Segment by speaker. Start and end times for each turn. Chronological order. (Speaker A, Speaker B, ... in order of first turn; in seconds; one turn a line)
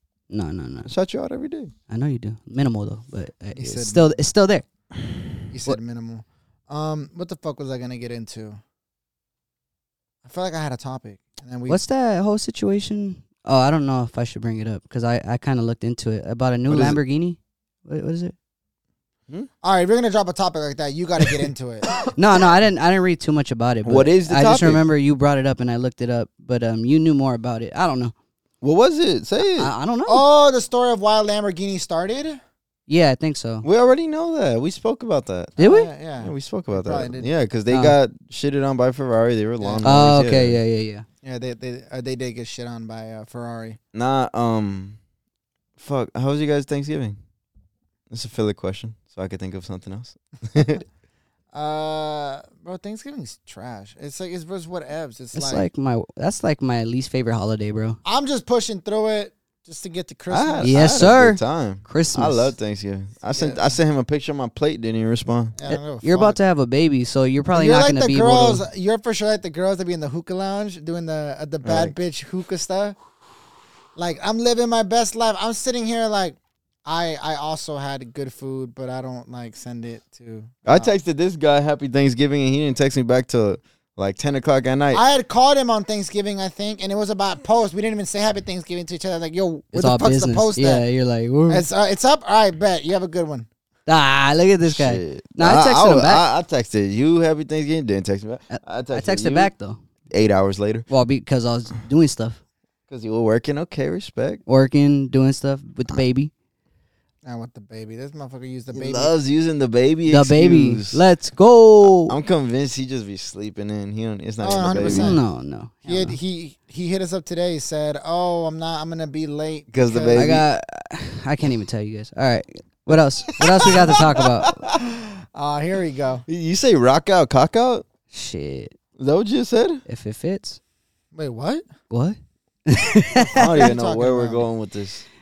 Speaker A: 0.3-0.9
Speaker B: 0.9-1.7
Speaker A: 1.9-4.6
Speaker C: 3.5-4.1
Speaker C: 5.5-8.6
Speaker C: 10.2-11.8
Speaker A: 11.7-18.3
Speaker B: 16.7-17.0
Speaker C: 19.6-21.9
Speaker A: 22.1-28.1
Speaker B: 23.8-24.8
Speaker B: 28.6-29.7
Speaker A: 29.4-30.3
Speaker C: 30.1-32.4
Speaker A: 32.9-33.6
Speaker B: 33.6-35.6
Speaker C: 35.6-37.3
Speaker A: 35.6-35.9
Speaker B: 36.2-40.6
Speaker A: 37.7-38.0
Speaker C: 39.6-40.0
Speaker A: 39.8-41.0
Speaker C: 41.2-43.8
Speaker B: 43.9-45.0
Speaker B: 45.8-47.2
Speaker B: 48.1-50.8
Speaker C: 51.5-55.7
Speaker A: 55.3-58.0
Speaker C: 58.0-61.0
Speaker B: 60.3-65.5
Speaker A: 60.6-62.5
Speaker C: 63.3-63.6
Speaker C: 65.6-66.4
Speaker A: 65.7-68.6
Speaker C: 67.5-73.0
Speaker B: 71.6-72.0
Speaker C: 74.0-80.9
Speaker B: 80.7-85.0
Speaker C: 84.9-90.8
Speaker A: 89.7-91.7
Speaker C: 91.5-93.5
Speaker A: 93.9-96.2
Speaker B: 94.6-99.5
Speaker A: 98.5-99.8
Speaker B: 100.1-100.9
Speaker A: 100.9-102.4
Speaker B: 102.9-104.4
Speaker A: 104.5-106.3
Speaker C: 107.2-109.1
Speaker B: 108.7-111.0
Speaker A: 110.0-112.2
Speaker B: 112.0-115.2
Speaker C: 114.4-115.2
Speaker A: 114.6-116.2
Speaker C: 115.9-120.2
Speaker B: 119.7-120.5
Speaker A: 120.1-124.6
Speaker B: 123.4-124.8
Speaker C: 124.8-126.2
Speaker B: 126.3-127.9
Speaker A: 128.1-128.7
Speaker B: 129.0-129.8
Speaker A: 129.9-130.6
Speaker C: 131.1-131.7
Speaker A: 131.9-133.7
Speaker B: 133.3-135.1
Speaker C: 133.5-134.5